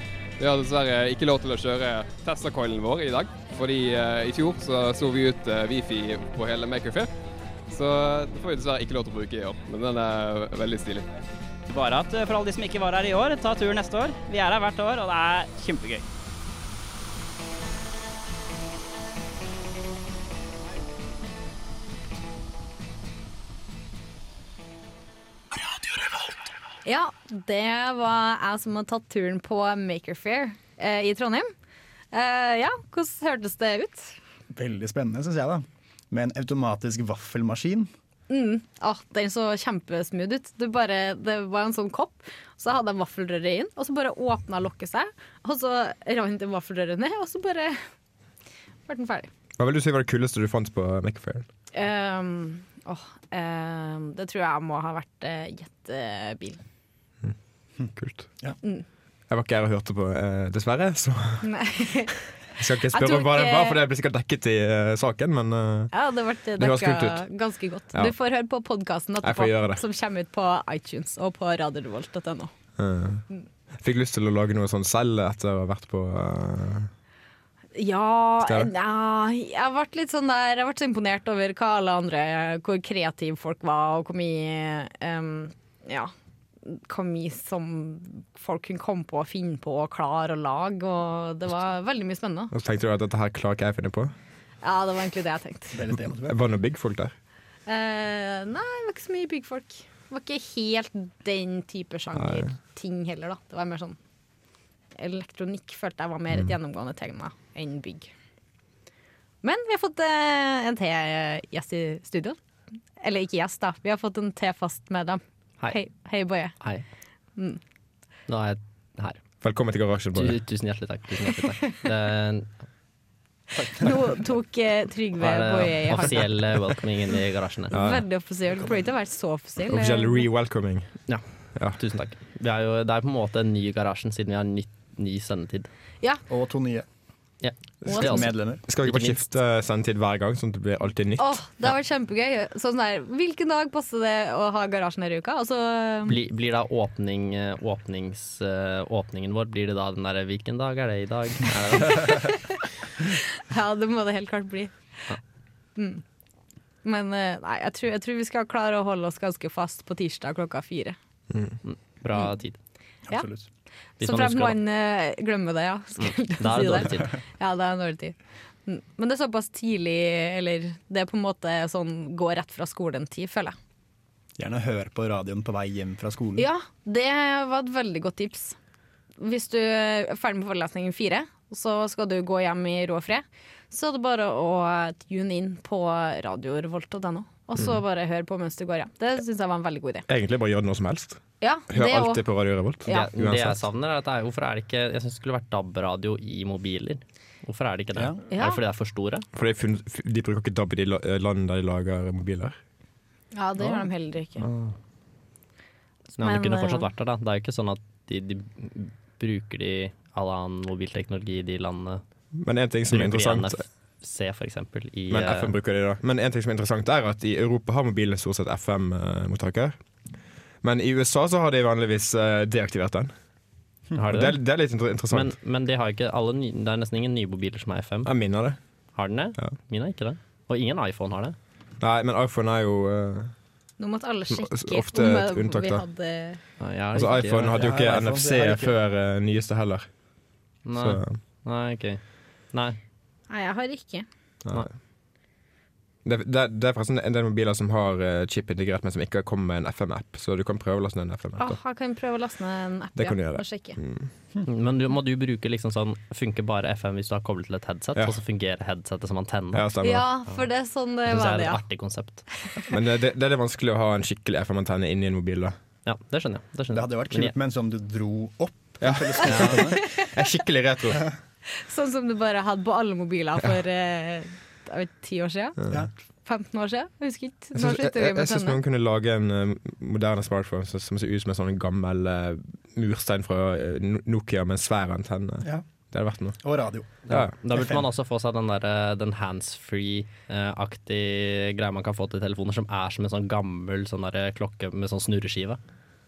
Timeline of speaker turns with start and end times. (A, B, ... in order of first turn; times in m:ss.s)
0:00.4-0:07.1 A
0:07.7-0:11.1 A
0:11.7-0:16.0 B
0:26.8-0:31.5 C
0:32.1-0:34.2 C
0:34.5-0:37.9 D
0:38.3-0:47.8 C
0:48.9-0:49.3 C
0:49.6-0:51.4 E
0:51.7-0:56.6 C
0:57.9-0:58.3 E
0:59.3-1:01.4 E
1:01.4-1:02.2 C
1:02.6-1:05.9 E
1:02.9-1:03.8 C
1:05.9-1:12.5 C
1:06.6-1:07.3 E
1:09.2-1:09.8 E
1:12.8-1:13.2 E
1:13.8-1:16.9 E
1:17.8-1:26.1 C
1:18.4-1:18.7 E
1:26.6-1:32.5 C
1:32.5-1:34.1 E
1:34.6-1:35.8 C
1:35.7-1:36.4 D
1:36.2-1:37.1 E
1:37.7-1:44.0 C
1:42.2-1:42.5 E
1:45.0-1:48.1 C
1:49.4-1:52.4 C
1:53.0-1:56.6 C
1:56.6-1:56.8 F
1:58.3-1:59.2 F
1:59.4-2:00.4 E
2:00.1-2:02.5 F
2:03.7-2:06.3 C
2:05.2-2:07.7 F
2:07.7-2:10.2 C
2:07.7-2:08.0 E
2:09.7-2:11.0 E
2:11.1-2:15.7 F
2:11.6-2:11.8 E
2:16.3-2:16.8 D
2:17.4-2:19.2 F
2:17.8-2:21.4 E
2:17.9-2:18.3 C
2:18.0-2:18.6 D
2:21.2-2:26.2 C
2:26.0-2:32.3 F
2:32.0-2:32.4 C
2:33.5-2:34.7 C
2:35.8-2:36.0 C
2:36.8-2:41.0 C
2:41.3-2:41.6 E
2:41.6-2:42.6 F
2:43.1-2:43.4 D
2:44.0-2:44.6 F
2:44.0-2:48.1 C
2:46.0-2:47.2 F
2:48.6-2:53.6 C
2:54.4-2:56.5 D
2:56.4-2:58.6 C
2:59.2-3:10.0 C
3:10.1-3:13.6 E
3:11.4-3:12.2 C
3:12.8-3:19.2 F
3:18.3-3:18.6 C
3:19.3-3:22.6 E
3:23.3-3:24.4 C
3:24.4-3:24.7 F
3:26.2-3:32.0 F
3:26.2-3:26.9 C
3:32.4-3:33.6 E
3:32.9-3:35.5 F
3:35.1-3:39.8 E
3:40.6-3:43.1 E
3:44.0-3:44.4 F
3:44.0-3:45.3 E
3:45.1-3:48.1 F
3:48.0-3:48.6 E
3:48.9-3:51.4 F
3:51.8-3:53.3 E
3:53.8-3:56.4 C
3:54.3-3:55.8 E
3:56.6-3:57.6 F
3:56.9-3:59.9 E
3:57.5-3:58.8 D
4:00.6-4:02.0 F
4:00.7-4:01.2 E
4:02.5-4:02.8 F
4:03.3-4:04.0 C
4:04.4-4:04.7 E
4:06.0-4:11.6 E
4:11.4-4:13.8 C
4:13.0-4:14.1 E
4:14.4-4:19.7 F
4:19.5-4:20.1 E
4:19.8-4:21.6 C
4:21.0-4:22.2 F
4:22.7-4:25.6 E
4:25.8-4:27.3 F
4:26.7-4:29.8 D
4:28.8-4:31.1 E
4:29.2-4:29.7 F
4:31.6-4:35.6 C
4:36.2-4:38.6 C
4:37.5-4:46.4 E
4:46.4-4:47.8 D
4:47.1-4:47.3 E
4:47.1-4:55.6 F